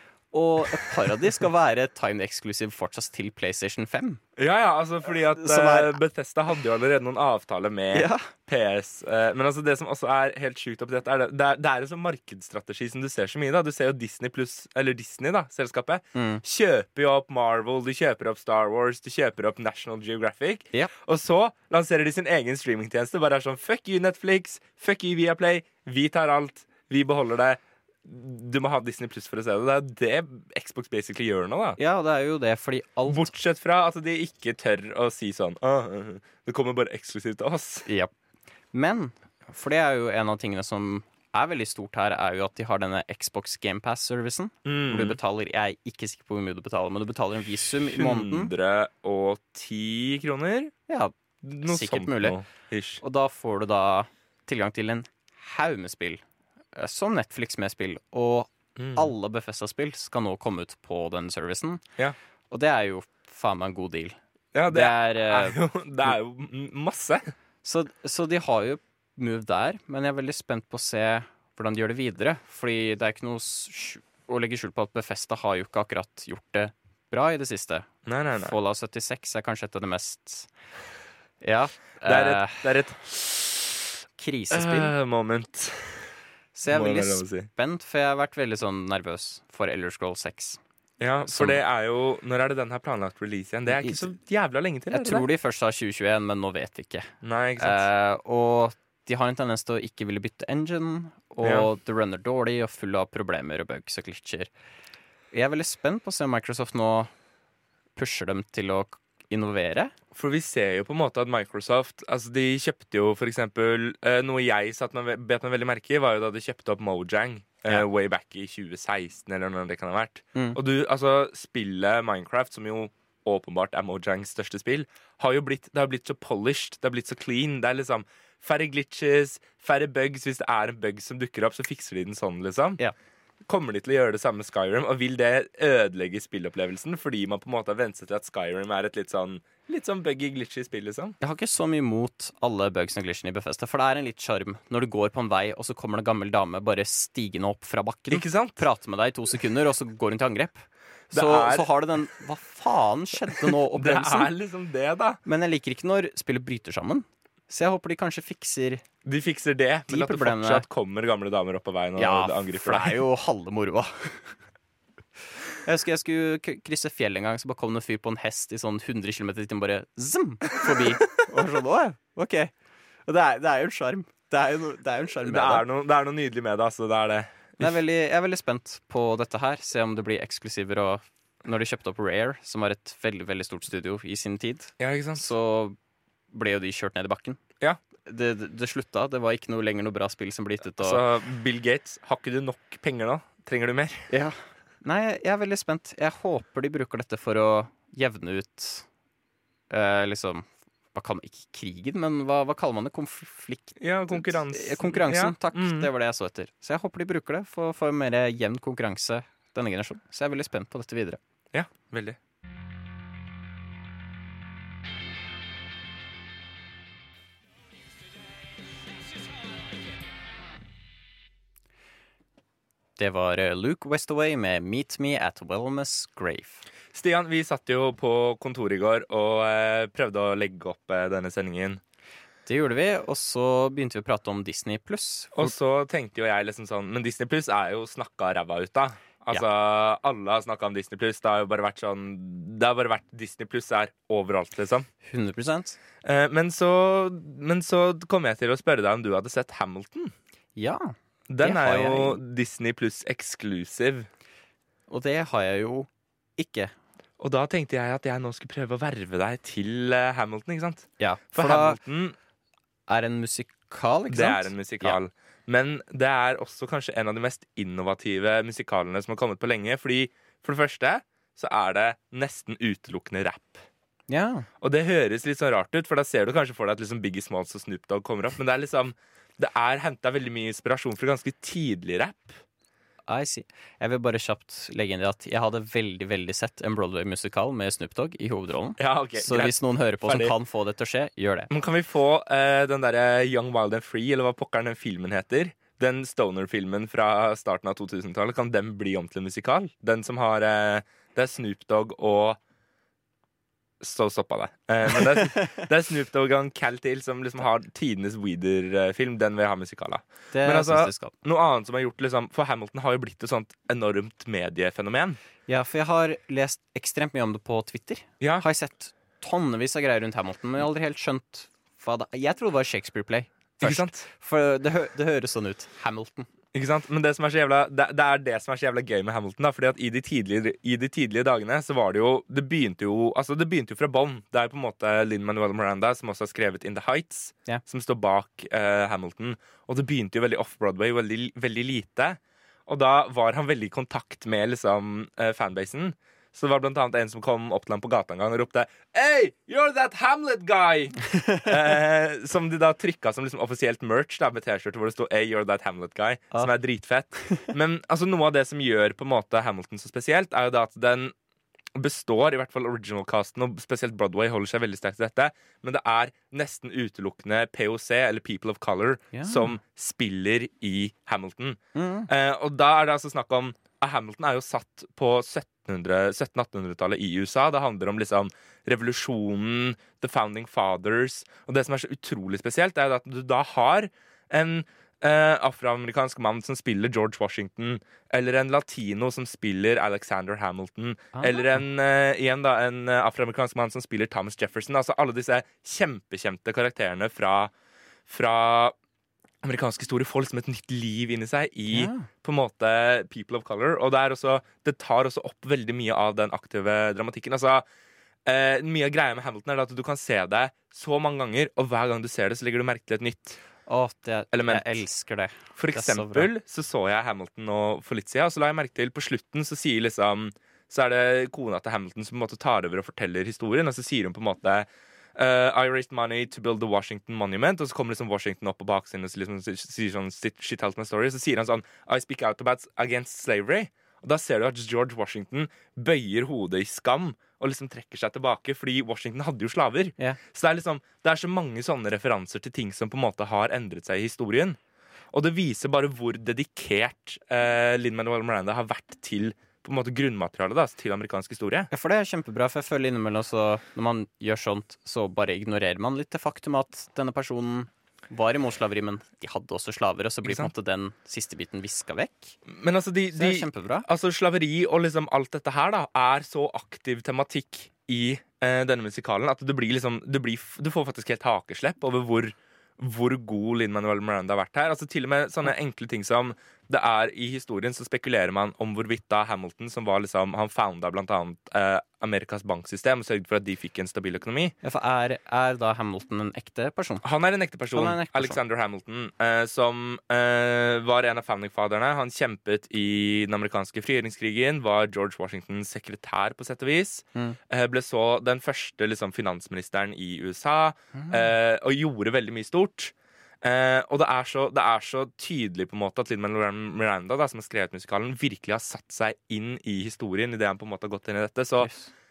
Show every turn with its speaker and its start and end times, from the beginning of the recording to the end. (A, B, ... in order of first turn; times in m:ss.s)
0:00.3-0:04.2 A
0:04.4-0:31.8 B
0:05.3-0:06.0 A
0:07.9-0:08.3 A
0:16.1-0:16.4 A
0:31.8-0:33.3 A
0:33.1-0:37.9 B
0:37.8-0:38.1 A
0:38.7-0:48.5 A
0:44.6-0:45.2 B
0:47.9-0:50.7 B
0:50.9-0:52.4 A
0:51.4-0:53.0 B
0:53.0-0:56.2 A
0:56.7-1:01.8 A
0:58.8-0:59.1 B
1:02.5-1:04.2 A
1:04.5-1:07.3 B
1:04.7-1:05.6 A
1:07.6-1:20.5 A
1:18.0-1:18.6 B
1:21.4-1:22.6 A
1:22.0-1:23.9 B
1:24.2-1:24.9 A
1:24.5-1:26.1 B
1:26.5-1:30.6 A
1:26.7-1:27.5 B
1:31.0-1:35.2 B
1:31.3-1:31.6 A
1:33.7-1:34.1 A
1:34.9-1:44.5 A
1:37.2-1:37.8 B
1:45.3-1:47.1 A
1:48.0-1:49.9 A
1:50.1-2:12.8 B
2:13.5-2:21.2 B
2:21.2-2:34.3 A
2:28.1-2:28.6 B
2:31.1-2:31.7 B
2:33.4-2:35.2 B
2:35.2-2:38.8 A
2:39.0-2:43.0 B
2:39.9-2:40.6 A
2:42.0-2:44.4 A
2:45.6-2:52.5 A
2:53.1-2:55.6 A
2:55.2-2:57.8 B
2:57.6-3:05.8 A
3:04.8-3:05.3 B
3:06.3-3:07.4 A
3:08.0-3:11.0 A
3:10.8-3:14.1 B
3:14.1-3:18.9 A
3:19.7-3:31.2 A
3:23.8-3:25.9 B
3:31.5-3:32.2 B
3:43.0-3:46.6 A
3:46.9-3:51.8 B
3:52.4-3:55.5 A
3:55.3-4:04.9 B
4:05.0-4:05.8 A
4:06.0-4:10.1 B
4:10.6-4:12.2 A
4:11.3-4:14.1 B
4:14.9-4:16.7 A
4:17.2-4:22.2 B
4:21.0-4:21.8 A
4:22.9-4:25.0 A
4:24.1-4:33.6 B
4:34.1-4:34.5 A
4:34.6-4:42.4 B
4:43.1-4:51.5 A
4:48.8-4:50.3 B
4:51.5-5:02.4 B
5:03.8-5:15.2 B
5:10.3-5:11.1 A
5:15.5-5:26.3 A
5:18.2-5:18.4 B
5:23.6-5:24.0 B
5:26.5-6:01.1 B
6:01.7-6:37.5 B
6:09.1-6:09.5 A
6:11.7-6:12.1 A
6:31.1-6:31.5 A
6:38.1-6:38.7 B
6:39.4-6:47.6 B
6:41.7-6:42.1 A
6:48.2-6:53.4 B
6:53.7-6:56.3 A
6:54.3-6:54.8 B
6:55.6-7:24.6 B
7:25.1-7:31.7 B
7:31.7-7:42.4 A
7:40.2-7:40.5 B
7:42.5-8:04.5 B
7:43.1-7:43.9 A
8:04.6-8:07.0 A
8:07.0-8:31.7 B
8:07.7-8:08.4 A
8:20.9-8:21.2 A
8:31.6-8:31.9 A